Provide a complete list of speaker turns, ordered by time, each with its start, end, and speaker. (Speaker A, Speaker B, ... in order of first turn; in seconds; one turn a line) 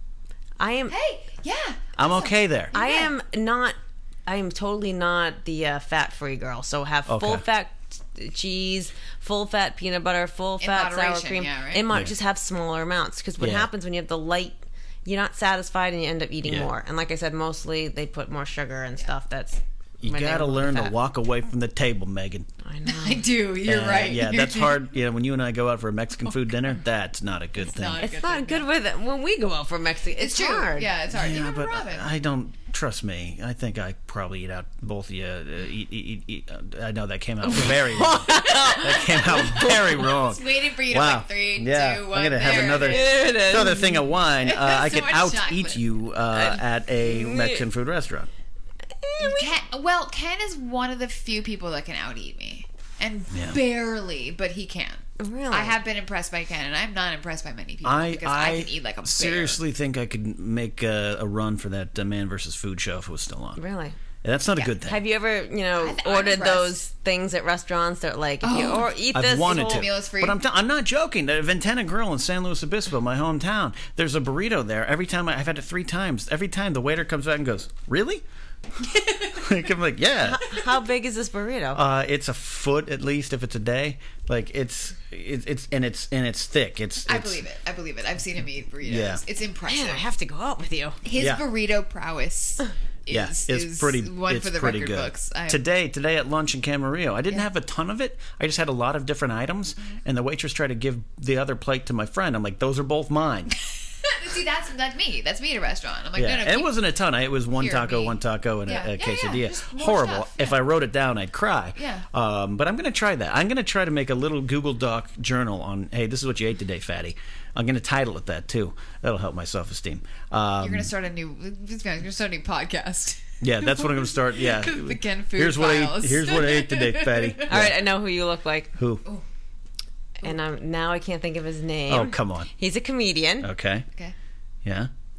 Speaker A: 0.6-0.9
Speaker B: 0.9-3.1
Speaker C: 2.0-2.7
Speaker A: 2.7-20.9
Speaker C: 7.1-7.4
Speaker B: 10.6-11.8
Speaker C: 13.4-13.7
Speaker C: 16.4-16.7
Speaker C: 20.0-22.5
Speaker A: 22.6-23.3
Speaker B: 22.9-24.8
Speaker C: 23.6-28.1
Speaker B: 26.3-26.6
Speaker B: 27.6-28.7
Speaker A: 28.0-30.9
Speaker B: 30.2-32.1
Speaker C: 31.1-48.3
Speaker A: 37.4-39.9
Speaker B: 38.3-45.8
Speaker A: 42.4-44.0
Speaker A: 46.3-47.6
Speaker A: 49.0-49.5
Speaker B: 49.2-59.6
Speaker C: 53.3-53.6
Speaker A: 55.2-55.8
Speaker C: 57.8-63.6
Speaker A: 63.5-64.0
Speaker C: 64.2-65.0
Speaker A: 64.7-69.9
Speaker B: 65.8-66.8
Speaker B: 68.4-70.4
Speaker C: 69.1-78.2
Speaker B: 78.8-79.5
Speaker C: 79.4-80.6
Speaker A: 80.2-81.8
Speaker C: 81.7-87.4
Speaker B: 87.0-90.0
Speaker C: 88.8-89.2
Speaker A: 89.7-91.0
Speaker B: 91.0-95.6
Speaker C: 91.2-91.4
Speaker C: 93.1-103.5
Speaker B: 104.0-106.8
Speaker C: 106.2-120.9
Speaker B: 107.5-110.6
Speaker B: 111.8-112.0
Speaker B: 120.6-127.6
Speaker C: 123.4-127.9
Speaker A: 127.5-128.7
Speaker C: 128.7-129.0
Speaker A: 130.2-133.5
Speaker C: 131.9-132.5
Speaker C: 133.4-133.8
Speaker C: 134.6-134.9